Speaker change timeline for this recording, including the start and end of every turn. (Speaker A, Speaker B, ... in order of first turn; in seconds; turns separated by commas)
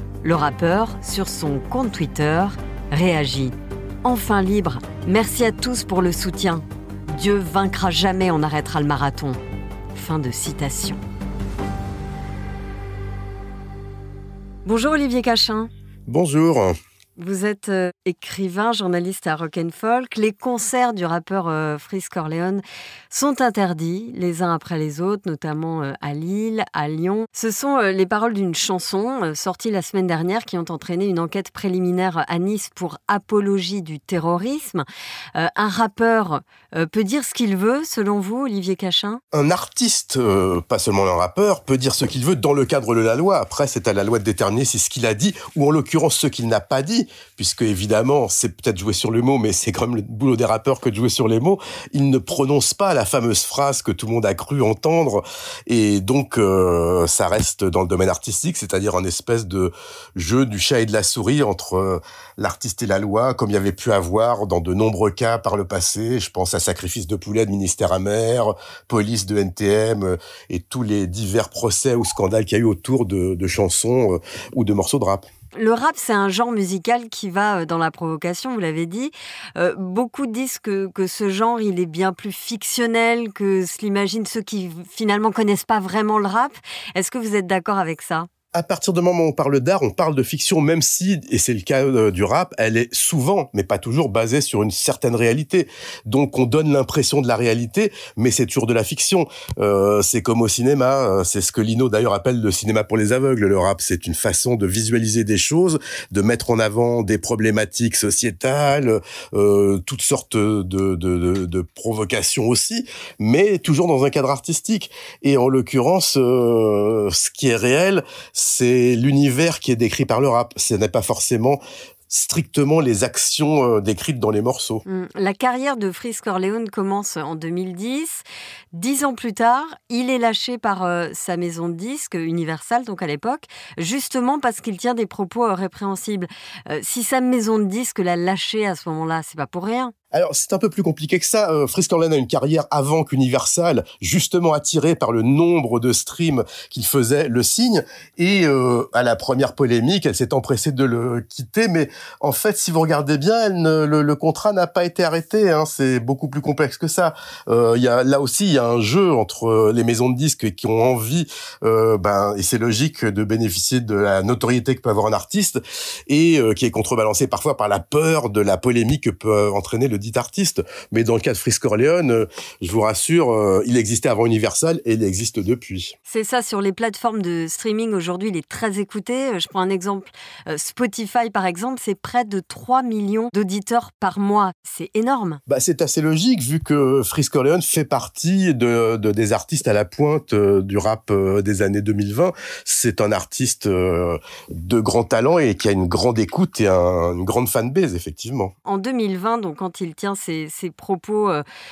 Speaker A: 0.2-9.4, Speaker A: 9.9-11.0, Speaker A: 14.6-15.7, Speaker B: 16.1-16.8, Speaker A: 17.2-39.2, Speaker B: 39.3-75.3, Speaker A: 75.5-88.3, Speaker B: 88.5-124.8, Speaker A: 124.9-139.9, Speaker B: 140.1-175.9, Speaker A: 176.1-185.4, Speaker B: 185.5-198.5, Speaker A: 198.7-201.4